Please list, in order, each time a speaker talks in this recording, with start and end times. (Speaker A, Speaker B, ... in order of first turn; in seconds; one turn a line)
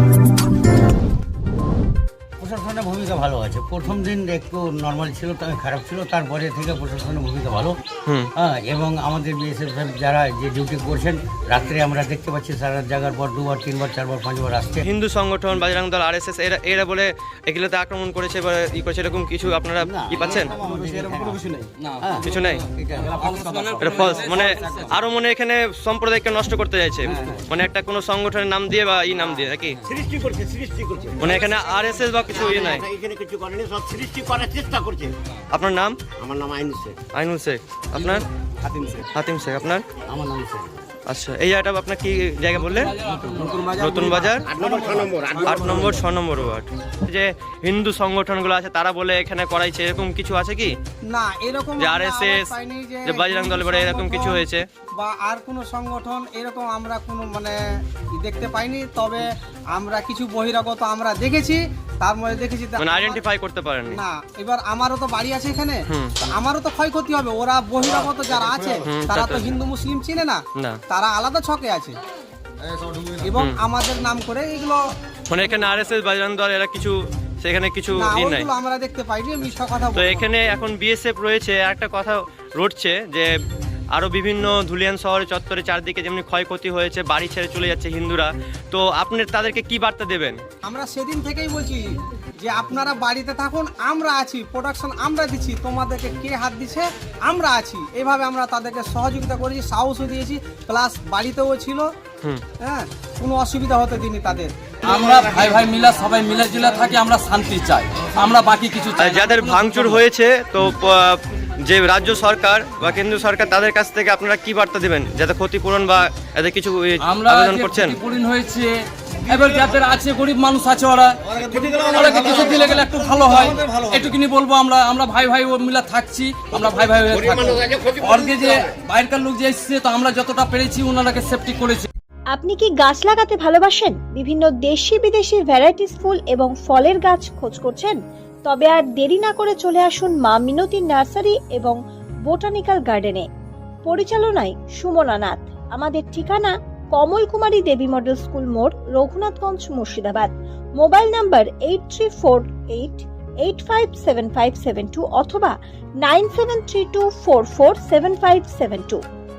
Speaker A: 2.4-7.8
Speaker A: 8.4-14.9
Speaker B: 14.8-20.5
Speaker A: 19.8-24.9
Speaker C: 21.8-22.2
Speaker B: 22.2-22.6
Speaker C: 23.0-24.9
Speaker B: 23.8-29.8
Speaker A: 27.0-27.4
Speaker D: 29.9-31.4
Speaker B: 31.2-32.9
Speaker D: 32.2-35.1
Speaker B: 35.5-36.0
Speaker D: 36.2-37.0
Speaker B: 37.1-38.2
Speaker A: 38.0-39.0
Speaker B: 39.1-39.8
Speaker A: 40.1-40.7
Speaker B: 41.1-42.9
Speaker C: 42.5-44.0
Speaker B: 43.7-44.5
Speaker D: 44.5-45.4
Speaker A: 44.6-45.9
Speaker B: 45.4-50.7
Speaker E: 51.1-54.4
Speaker B: 51.8-52.5
Speaker B: 53.0-54.6
Speaker E: 55.0-57.5
Speaker E: 58.1-63.2
Speaker B: 62.8-64.0
Speaker E: 63.9-65.7
Speaker B: 65.9-66.1
Speaker E: 66.3-70.4
Speaker B: 68.8-69.5
Speaker E: 70.9-71.9
Speaker E: 73.2-74.8
Speaker B: 75.3-78.5
Speaker E: 78.0-80.3
Speaker B: 79.9-83.3
Speaker B: 83.9-90.4
Speaker E: 90.6-91.8
Speaker E: 92.4-101.8
Speaker E: 102.6-104.5
Speaker C: 104.8-110.0
Speaker B: 109.0-118.0
Speaker C: 117.0-131.9
Speaker F: 132.3-141.8
Speaker F: 142.3-143.2
Speaker F: 143.8-159.0